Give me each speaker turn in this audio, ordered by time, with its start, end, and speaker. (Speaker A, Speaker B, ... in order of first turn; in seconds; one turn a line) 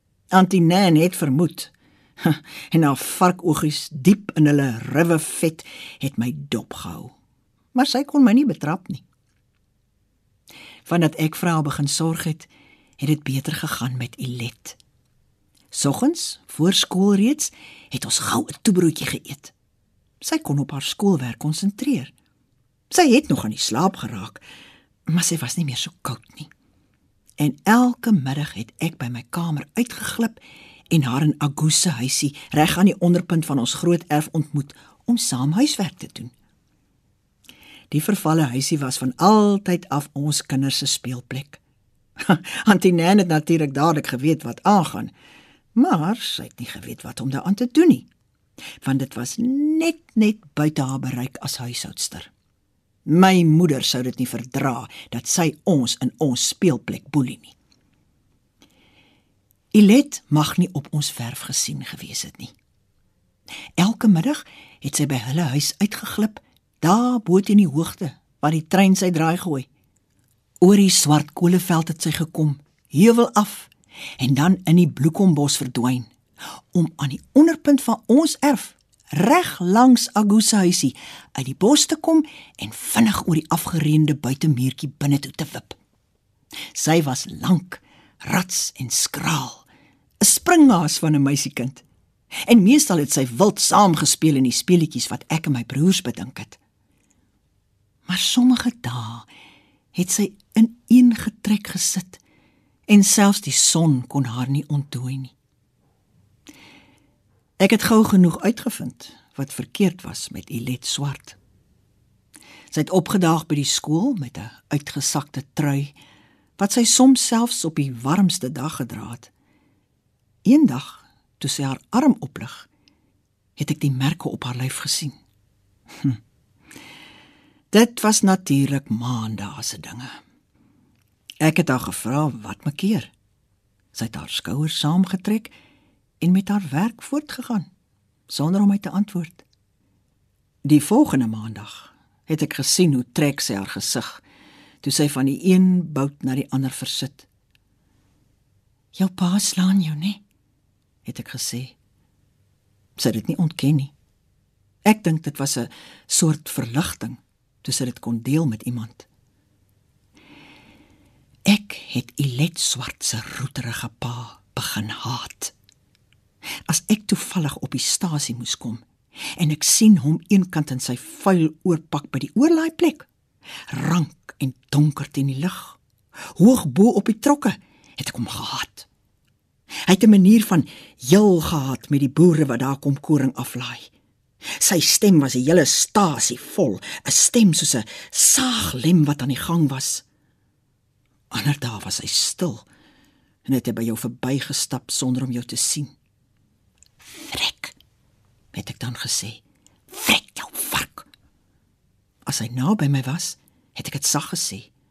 Speaker A: 0.3-7.1
Speaker A: 7.7-9.0
Speaker A: 10.8-14.8
Speaker A: 15.7-19.5
Speaker A: 20.2-22.1
Speaker A: 22.9-24.4
Speaker A: 25.1-26.5
Speaker A: 27.4-36.3
Speaker A: 37.9-41.6
Speaker A: 42.2-45.1
Speaker A: 45.7-48.1
Speaker A: 48.8-52.3
Speaker A: 53.0-57.5
Speaker A: 59.7-62.5
Speaker A: 63.8-69.7
Speaker A: 70.6-76.1
Speaker A: 76.7-85.8
Speaker A: 86.7-89.7
Speaker A: 90.2-91.8
Speaker A: 92.5-96.6
Speaker A: 98.0-99.3
Speaker A: 99.9-102.2
Speaker A: 102.9-105.3
Speaker A: 107.6-111.4
Speaker A: 112.7-115.9
Speaker A: 116.6-119.3
Speaker A: 120.4-122.7
Speaker A: 123.6-125.2
Speaker A: 127.7-130.1
Speaker A: 131.4-133.1
Speaker A: 133.9-135.5
Speaker A: 136.2-137.7
Speaker A: 138.3-139.4
Speaker A: 140.6-144.2
Speaker A: 144.8-147.3
Speaker A: 148.9-150.2
Speaker A: 151.0-151.7
Speaker A: 153.0-153.9
Speaker A: 154.8-159.1
Speaker A: 161.4-165.5
Speaker A: 166.7-168.8
Speaker A: 169.4-173.1
Speaker A: 173.7-175.8
Speaker A: 176.3-178.9
Speaker A: 179.8-183.9
Speaker A: 184.6-190.0
Speaker A: 191.3-192.7
Speaker A: 193.4-195.9
Speaker A: 197.0-197.8
Speaker A: 198.5-201.1
Speaker A: 202.2-204.7